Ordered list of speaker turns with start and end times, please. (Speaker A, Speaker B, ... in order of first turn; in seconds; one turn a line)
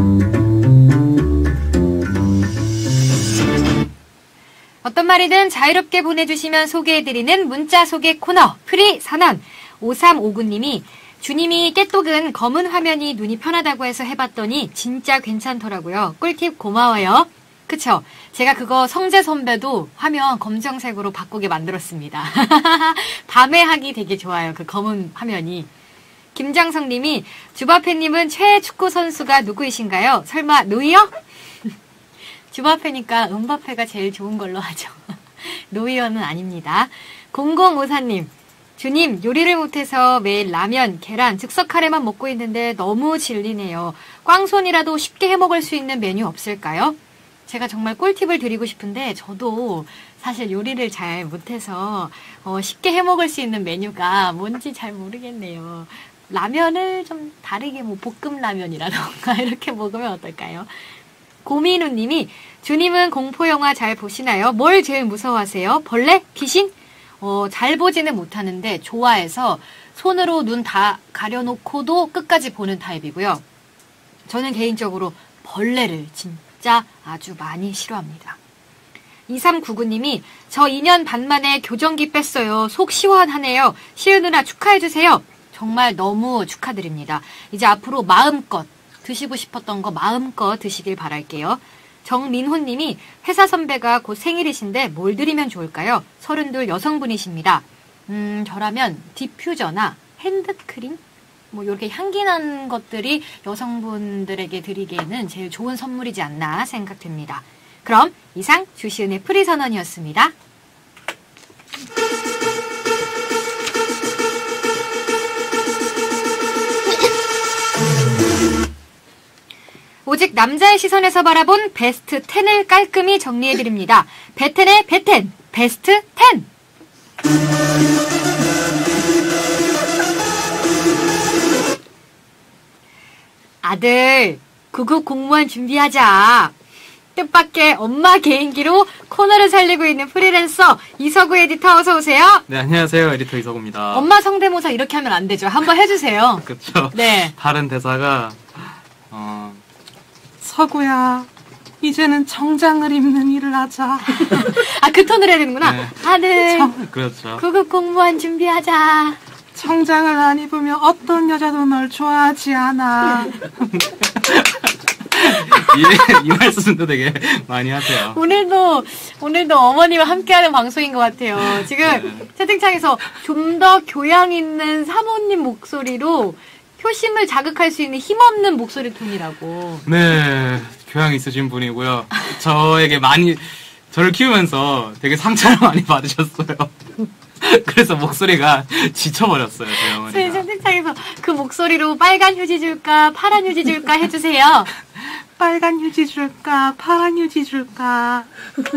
Speaker A: 4.8-25.7
Speaker A: 26.4-31.7
Speaker A: 32.5-73.4
Speaker A: 74.3-78.4
Speaker A: 79.3-101.0
Speaker A: 101.5-110.3
Speaker A: 120.1-126.5
Speaker A: 133.6-136.5
Speaker A: 137.2-142.4
Speaker B: 142.5-144.1
Speaker A: 143.9-147.3
Speaker B: 146.5-149.6
Speaker B: 150.4-151.3
Speaker B: 151.8-154.5
Speaker A: 154.2-156.7
Speaker B: 155.6-157.4
Speaker A: 157.4-159.2
Speaker B: 159.6-168.2
Speaker A: 168.1-179.8
Speaker B: 171.4-172.3
Speaker B: 179.9-186.7
Speaker B: 187.4-190.4
Speaker A: 189.8-194.7
Speaker B: 195.0-198.3